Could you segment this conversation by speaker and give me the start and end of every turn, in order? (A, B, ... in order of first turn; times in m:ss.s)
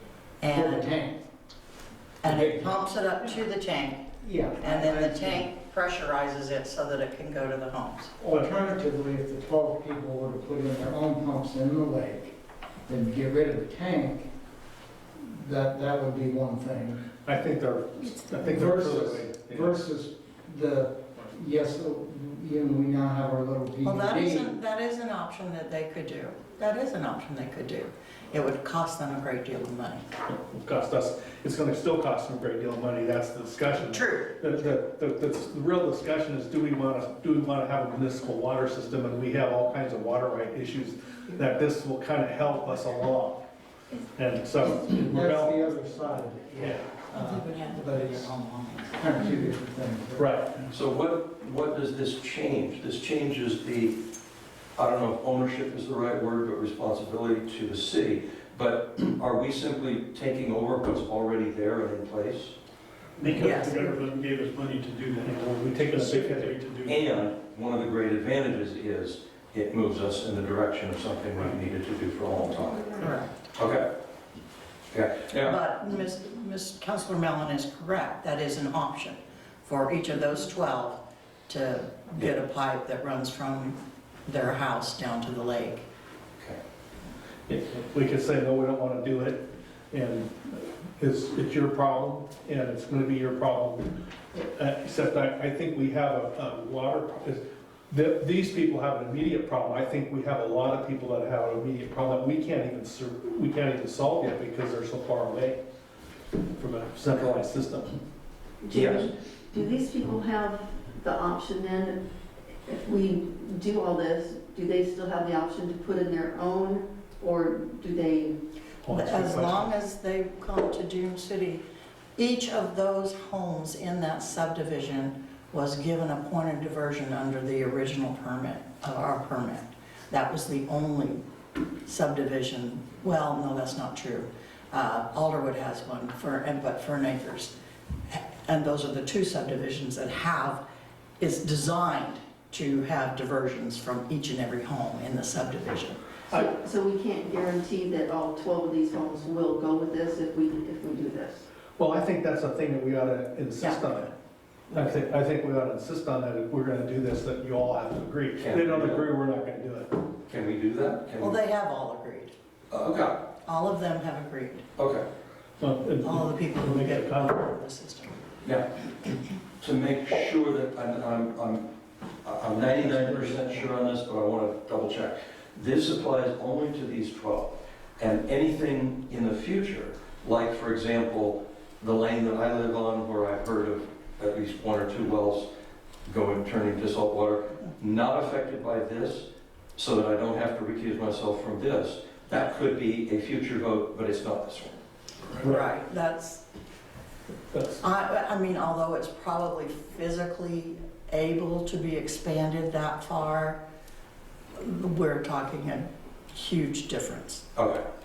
0:00.4-0:00.9 A
0:00.5-0:01.2 B
0:02.2-0:04.0 A
0:02.2-0:02.7 B
0:04.2-0:05.5 B
0:04.6-0:08.1 A
0:08.2-0:12.3 B
0:12.9-0:14.3 B
0:15.2-0:17.0 B
0:17.2-0:19.8 C
0:18.3-0:24.5 B
0:23.8-0:30.0 A
0:30.5-0:43.4 C
0:33.8-0:34.3 A
0:44.1-0:45.6 C
0:44.9-0:48.4 B
0:46.6-0:46.9 C
0:47.1-0:49.0 A
0:49.0-0:50.3 B
0:50.2-0:50.6 C
0:50.7-0:54.0 D
0:54.8-1:02.6 D
1:03.2-1:06.9 E
1:03.4-1:04.0 A
1:05.2-1:06.6 C
1:06.8-1:13.0 D
1:13.0-1:13.3 A
1:13.6-1:13.8 D
1:14.9-1:15.6 D
1:15.4-1:25.8 A
1:27.5-1:45.6 C
1:46.6-1:48.0 C
1:48.6-1:52.0 F
1:48.7-1:49.1 D
1:52.6-1:58.3 F
1:58.8-1:59.7 C
1:58.9-2:01.6 A
2:02.2-2:11.2 A
2:11.8-2:17.5 A
2:18.1-2:20.6 A
2:21.2-2:26.0 A
2:26.3-2:31.4 F
2:31.8-2:34.1 C
2:34.7-2:39.9 C
2:38.4-2:39.0 D
2:40.3-2:41.4 D
2:41.2-2:42.3 A
2:42.7-2:43.2 D
2:43.4-2:44.6 A
2:44.8-2:45.0 D
2:45.6-2:47.4 C
2:46.0-2:48.1 A
2:49.6-2:51.6 D
2:52.2-3:05.5 D
2:52.8-2:53.6 B
3:06.0-3:14.8 D
3:15.4-3:15.6 C
3:15.4-3:16.4 A
3:17.5-3:17.8 C
3:17.8-3:23.6 A
3:24.5-3:27.4 A
3:27.5-3:27.8 D